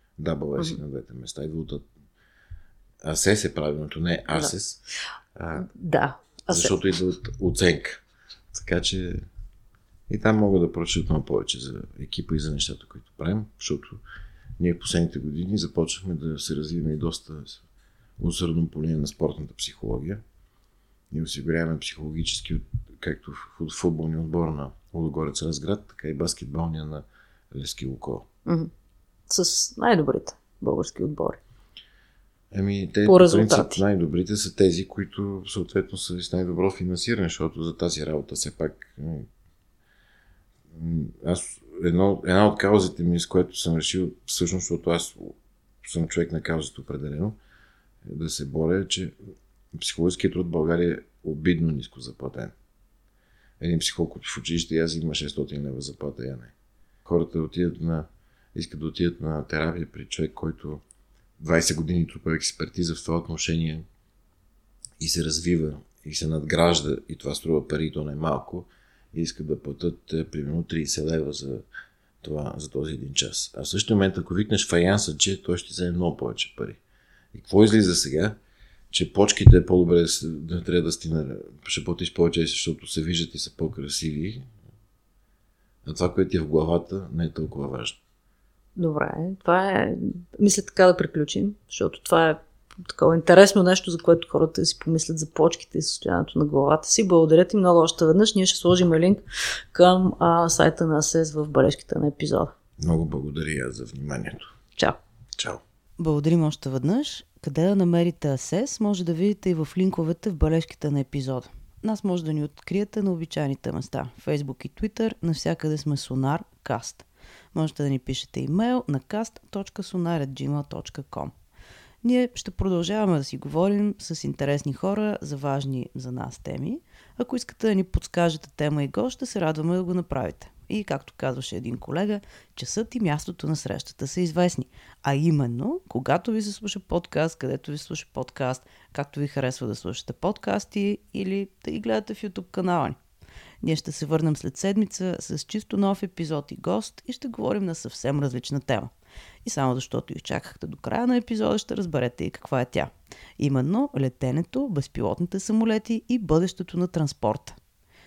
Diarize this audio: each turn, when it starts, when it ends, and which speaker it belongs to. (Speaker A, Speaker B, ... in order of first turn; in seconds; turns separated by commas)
Speaker A: 0.2-1.9, Speaker A: 3.0-4.8, Speaker A: 5.3-5.7, Speaker B: 5.6-6.8, Speaker A: 6.5-9.2, Speaker A: 10.1-14.0, Speaker A: 14.6-17.6, Speaker A: 18.2-20.2, Speaker A: 21.1-28.3, Speaker B: 28.4-28.7, Speaker B: 29.3-31.4, Speaker A: 32.5-39.3, Speaker B: 33.0-33.8, Speaker A: 40.7-47.4, Speaker A: 48.0-49.1, Speaker A: 49.7-52.5, Speaker A: 53.6-56.5, Speaker A: 57.0-60.8, Speaker A: 61.4-63.8, Speaker A: 65.0-71.6, Speaker A: 72.2-76.8, Speaker A: 77.3-78.3, Speaker A: 78.9-84.5, Speaker A: 85.8-88.0, Speaker B: 88.8-102.5, Speaker A: 102.8-104.5, Speaker C: 106.0-121.3, Speaker C: 122.0-143.0, Speaker C: 143.6-148.9, Speaker C: 149.4-157.6